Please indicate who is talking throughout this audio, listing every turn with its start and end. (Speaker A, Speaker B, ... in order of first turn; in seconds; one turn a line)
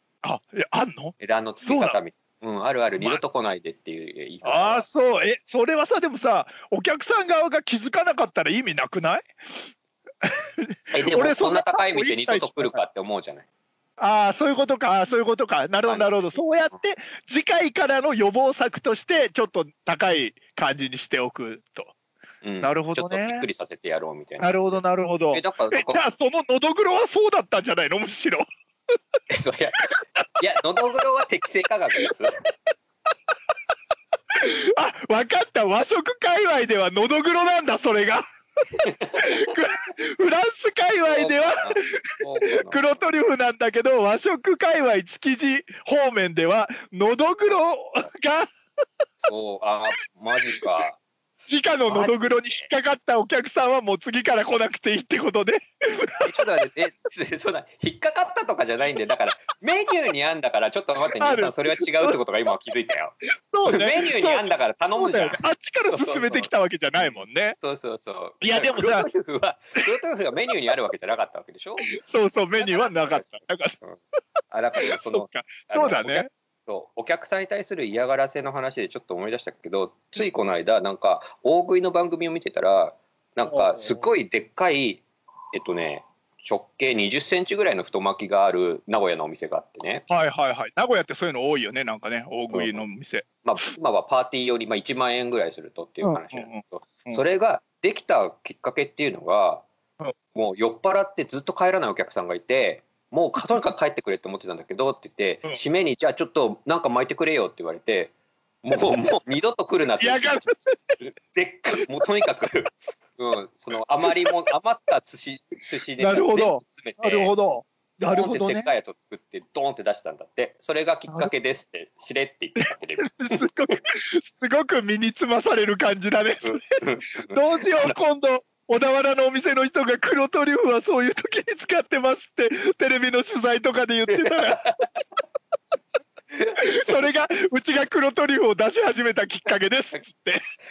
Speaker A: 0.2-2.0
Speaker B: 1.2-4.8
Speaker A: 4.4-9.6
Speaker A: 10.2-12.8
Speaker B: 10.9-13.5
Speaker A: 14.0-21.9
Speaker B: 15.8-16.4
Speaker B: 22.4-26.0
Speaker A: 22.6-23.5
Speaker A: 24.4-28.4
Speaker B: 29.3-32.3
Speaker A: 34.3-38.2
Speaker B: 38.7-39.2
Speaker A: 39.2-41.9
Speaker B: 41.1-43.1
Speaker A: 42.6-48.5
Speaker B: 49.2-51.0
Speaker A: 51.5-56.4
Speaker B: 51.9-52.7
Speaker B: 56.2-63.2
Speaker A: 61.2-62.2
Speaker A: 63.4-67.6
Speaker B: 63.7-71.9
Speaker A: 68.4-69.1
Speaker A: 71.9-73.8
Speaker B: 72.6-74.0
Speaker B: 74.5-90.0
Speaker A: 75.0-76.3
Speaker A: 83.5-84.1
Speaker A: 90.1-93.3
Speaker B: 92.5-92.8
Speaker B: 93.4-99.7
Speaker A: 96.0-97.2
Speaker B: 100.3-110.5
Speaker A: 110.0-111.0
Speaker B: 111.0-117.3
Speaker A: 116.0-118.7
Speaker B: 118.1-123.8
Speaker A: 121.1-121.3
Speaker A: 122.6-126.6
Speaker B: 126.4-128.0
Speaker A: 127.3-134.6
Speaker B: 134.1-134.9
Speaker B: 136.3-137.1
Speaker A: 136.6-140.4